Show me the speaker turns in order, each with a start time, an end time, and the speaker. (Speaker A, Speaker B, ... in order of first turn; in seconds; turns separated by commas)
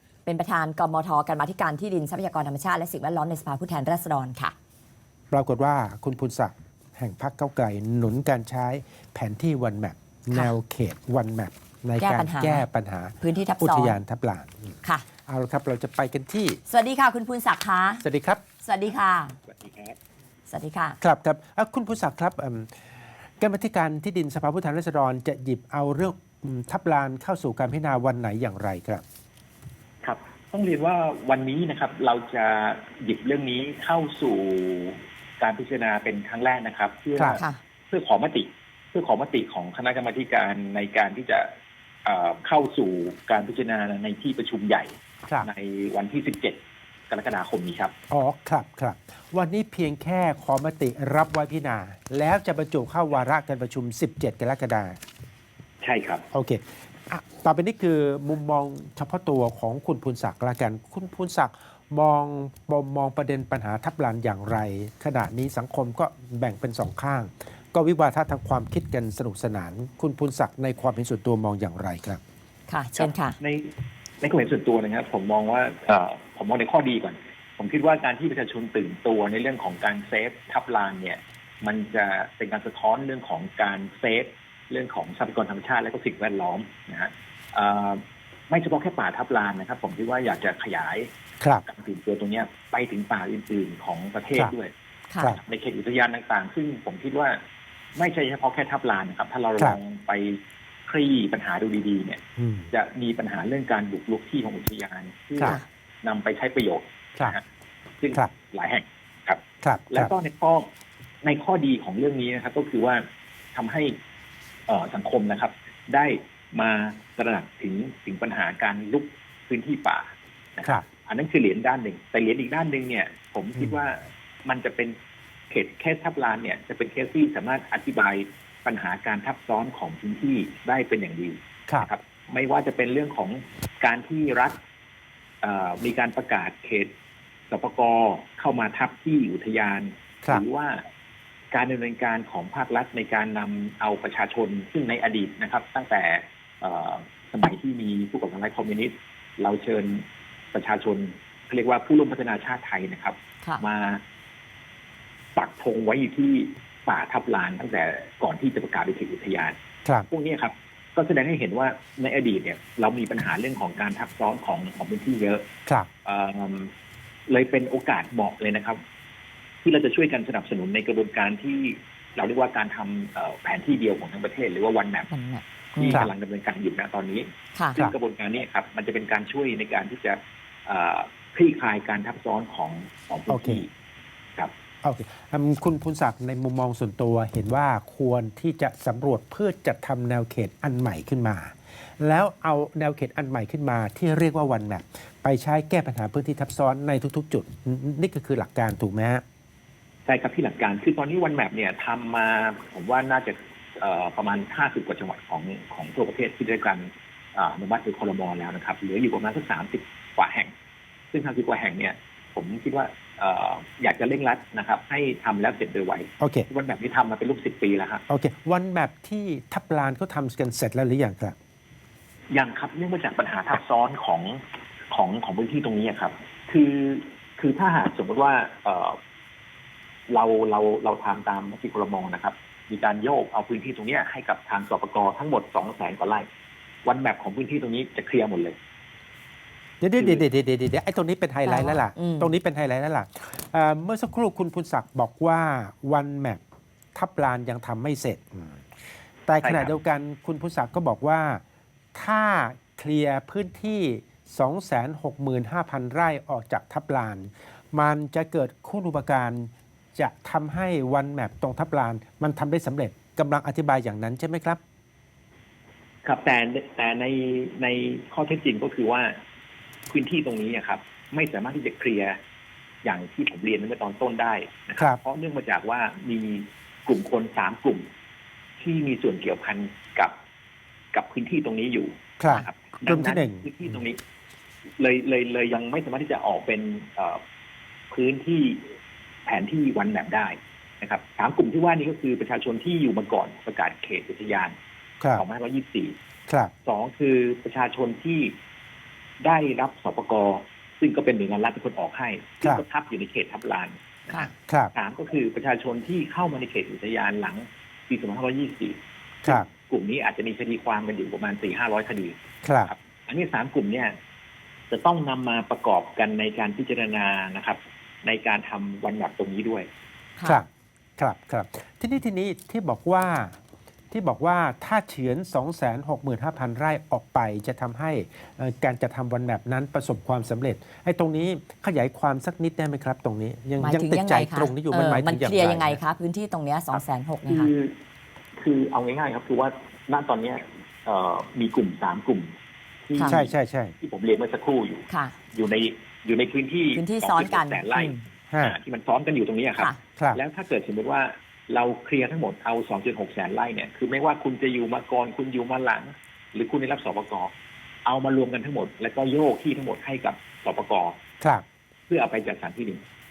Speaker A: 0.2-4.5, Speaker B: 5.3-16.6, Speaker A: 12.0-12.7, Speaker A: 13.2-14.0, Speaker A: 16.7-18.0, Speaker B: 18.0-18.4, Speaker A: 18.6-19.4, Speaker C: 19.5-20.0, Speaker A: 20.5-21.0, Speaker B: 21.0-22.9, Speaker B: 23.4-29.0, Speaker C: 30.0-41.5, Speaker C: 42.0-44.9, Speaker C: 45.4-46.6, Speaker C: 47.1-47.9, Speaker B: 48.1-55.0, Speaker C: 55.8-56.3, Speaker B: 56.3-72.2, Speaker A: 72.7-73.4, Speaker C: 73.0-91.1, Speaker C: 91.7-94.7, Speaker A: 95.1-95.4, Speaker C: 95.4-97.4, Speaker C: 98.0-107.4, Speaker B: 102.4-102.7, Speaker C: 108.0-110.7, Speaker B: 109.6-110.1, Speaker C: 111.2-113.0, Speaker C: 113.5-114.0, Speaker C: 114.7-125.0, Speaker C: 125.5-134.6, Speaker C: 135.4-136.9, Speaker C: 137.5-140.8, Speaker C: 141.5-154.0, Speaker C: 155.4-159.6, Speaker C: 160.1-165.5, Speaker C: 166.1-166.7, Speaker C: 167.3-168.8, Speaker C: 169.6-175.1, Speaker A: 175.1-176.1, Speaker C: 175.8-183.7, Speaker A: 177.6-177.8, Speaker B: 183.3-183.6, Speaker B: 184.8-199.2, Speaker C: 200.1-210.5, Speaker C: 211.1-218.0, Speaker B: 216.2-216.5, Speaker B: 218.1-221.4, Speaker C: 222.3-229.0, Speaker C: 230.1-236.3, Speaker C: 236.8-238.6, Speaker B: 239.8-246.4, Speaker C: 240.0-240.2, Speaker A: 241.4-242.3, Speaker B: 247.0-248.7, Speaker B: 249.3-251.4, Speaker C: 249.4-249.7, Speaker B: 251.9-264.6, Speaker C: 266.1-269.1, Speaker C: 269.9-272.2, Speaker C: 272.8-277.9, Speaker C: 278.6-280.1, Speaker C: 280.9-284.0, Speaker B: 282.2-283.5, Speaker C: 284.8-287.2, Speaker C: 287.9-288.6, Speaker C: 289.3-294.6, Speaker C: 295.2-295.9, Speaker B: 296.3-296.5, Speaker C: 296.6-298.4, Speaker C: 299.2-313.9, Speaker B: 304.4-304.7, Speaker B: 312.4-312.7, Speaker C: 314.7-319.7, Speaker B: 321.0-323.4, Speaker B: 323.9-335.8, Speaker A: 333.6-337.5, Speaker C: 337.3-337.8, Speaker C: 338.4-342.3, Speaker C: 342.9-357.3, Speaker B: 343.0-343.8, Speaker A: 344.9-345.2, Speaker A: 346.7-348.0, Speaker B: 348.3-348.6, Speaker C: 357.9-361.0, Speaker C: 361.9-362.8